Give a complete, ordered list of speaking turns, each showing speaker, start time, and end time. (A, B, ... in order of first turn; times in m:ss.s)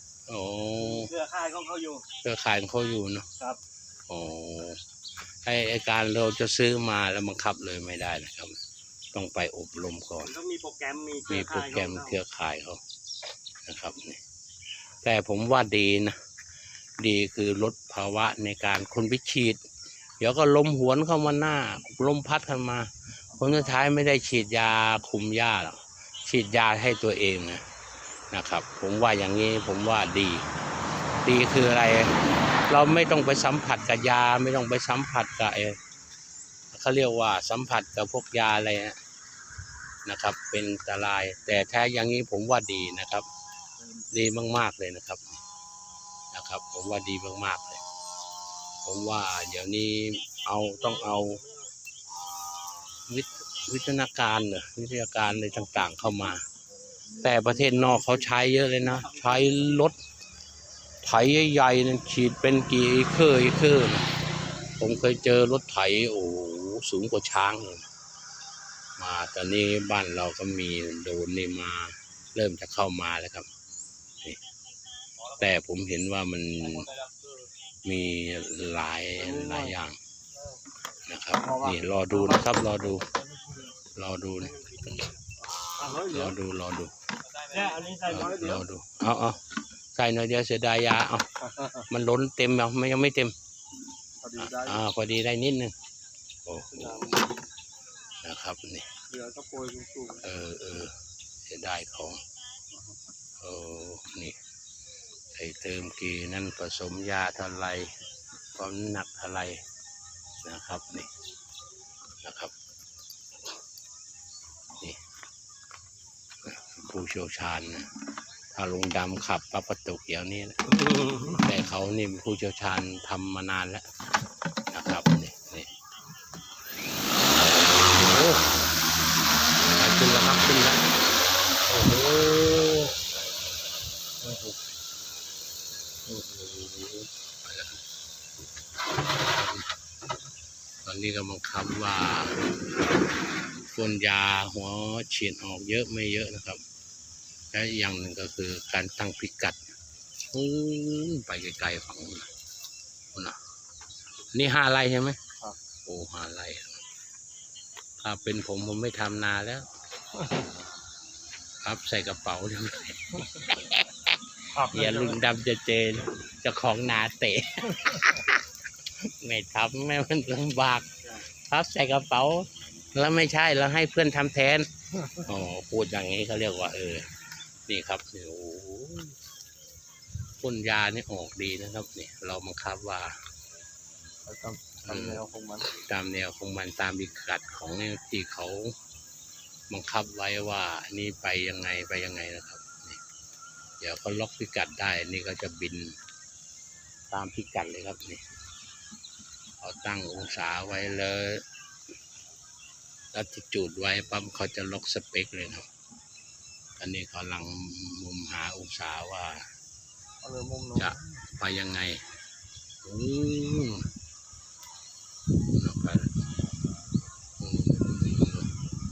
0:00.3-0:01.1 A
0:00.8-0:02.1 B
0:02.2-0:03.3 A
0:04.1-0:04.8 A
0:05.4-0:08.5 A
0:09.1-0:10.3 A
0:10.2-0:12.2 B
0:11.3-0:12.8 A
0:13.6-0:14.2 A
0:15.0-0:16.2 A
0:17.0-0:19.6 A
0:20.2-0:27.6 A
0:28.3-0:30.5 A
0:31.2-0:35.8 A
0:36.7-0:39.0 A
0:40.0-0:43.2 A
0:44.1-0:45.4 A
0:46.3-0:47.8 A
0:48.8-0:51.4 A
0:51.0-0:51.7 C
0:53.1-0:56.4 A
0:57.2-1:00.0 A
0:57.6-0:58.2 C
1:01.0-1:04.1 A
1:04.8-1:07.8 A
1:09.0-1:13.5 A
1:15.4-1:16.9 A
1:16.8-1:17.2 C
1:17.8-1:20.0 A
1:19.2-1:19.8 C
1:21.1-1:23.1 A
1:21.4-1:22.5 C
1:23.2-1:23.7 C
1:24.0-1:25.1 A
1:24.4-1:25.0 B
1:25.6-1:26.4 C
1:25.9-1:26.9 A
1:27.4-1:28.6 C
1:27.5-1:28.4 B
1:28.1-1:29.4 A
1:29.9-1:31.3 A
1:31.5-1:31.8 C
1:31.9-1:33.3 A
1:34.2-1:34.8 C
1:34.4-1:35.7 A
1:36.5-1:37.2 A
1:36.7-1:37.3 C
1:38.2-1:38.9 A
1:39.1-1:40.2 C
1:40.2-1:40.9 A
1:41.5-1:42.2 A
1:43.4-1:44.4 A
1:45.3-1:48.0 A
1:48.5-1:49.6 A
1:50.4-1:51.1 A
1:52.2-1:52.5 A
1:56.4-1:57.9 A
1:58.5-2:03.9 A
2:00.7-2:01.4 B
2:04.7-2:05.7 A
2:07.8-2:08.5 A
2:09.8-2:10.8 A
2:11.7-2:13.0 A
2:14.2-2:14.6 A
2:16.1-2:17.8 A
2:19.2-2:19.7 A
2:20.8-2:22.5 A
2:23.7-2:26.6 A
2:27.5-2:29.6 A
2:30.2-2:32.3 A
2:34.3-2:35.2 A
2:35.9-2:36.8 A
2:38.0-2:39.7 A
2:41.6-2:44.0 A
2:44.5-2:45.2 C
2:44.7-2:48.4 A
2:49.0-2:50.9 A
2:51.5-2:57.1 A
2:57.7-2:59.2 A
3:00.4-3:03.2 A
3:04.3-3:05.7 C
3:04.8-3:08.8 A
3:09.7-3:13.0 A
3:13.8-3:16.0 A
3:17.1-3:18.2 A
3:19.6-3:21.4 A
3:23.1-3:25.7 A
3:26.8-3:29.5 A
3:30.2-3:31.1 C
3:30.8-3:32.1 A
3:32.8-3:33.8 A
3:35.5-3:36.2 A
3:37.4-3:38.5 A